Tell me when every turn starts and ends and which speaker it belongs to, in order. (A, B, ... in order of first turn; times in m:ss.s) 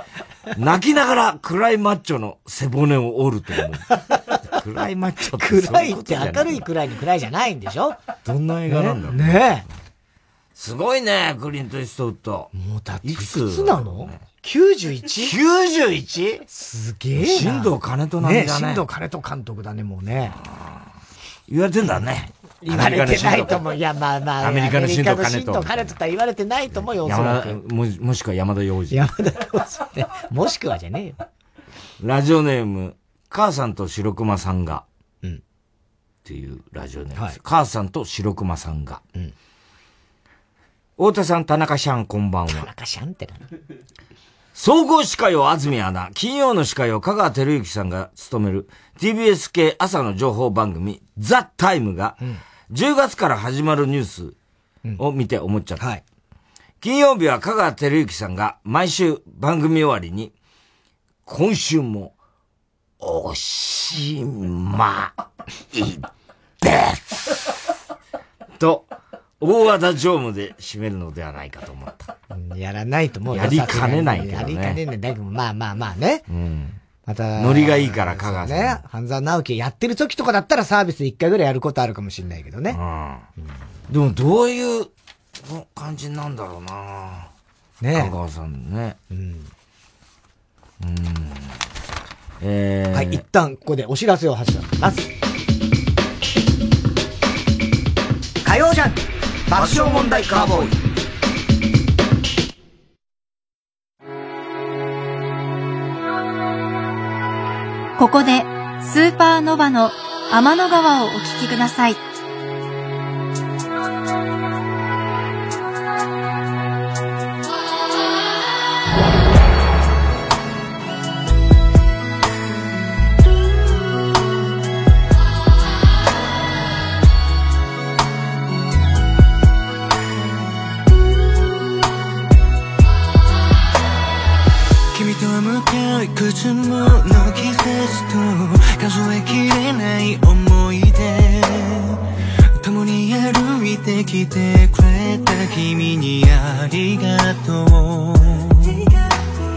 0:00.5-0:06.7 A
0:05.4-0:08.0 B
0:08.2-0:09.5 A
0:08.7-0:09.6 B
0:10.5-0:12.5 A
0:12.5-0:15.4 B
0:13.0-0:14.2 A
0:15.2-0:16.4 A
0:16.5-0:20.4 B
0:17.2-0:18.8 A
0:21.5-0:23.6 A
0:22.6-0:27.6 B
0:24.4-0:25.9 A
0:26.7-0:29.1 A
0:28.9-0:31.2 B
0:32.0-0:34.8 A
0:36.2-0:39.0 A
0:41.0-0:42.7 A
0:42.5-0:43.4 B
0:44.5-0:52.2 A
0:52.7-0:54.4 A
0:55.0-0:55.9 A
0:56.8-1:00.3 A
1:01.2-1:02.1 A
1:03.0-1:05.2 A
1:05.7-1:06.1 A
1:06.6-1:07.5 A
1:08.6-1:08.9 A
1:09.4-1:12.1 A
1:12.3-1:16.2 B
1:13.3-1:14.8 A
1:16.3-1:16.8 A
1:17.0-1:22.8 B
1:17.4-1:18.8 A
1:22.7-1:23.2 A
1:23.9-1:27.3 A
1:27.8-1:28.1 B
1:27.9-1:29.0 A
1:29.1-1:29.5 B
1:30.8-1:31.6 A
1:32.4-1:33.2 A
1:32.9-1:35.1 B
1:38.4-1:40.7 B
1:39.5-1:40.7 A
1:48.0-1:52.0 C
2:14.9-2:22.0 D
2:22.6-2:28.9 D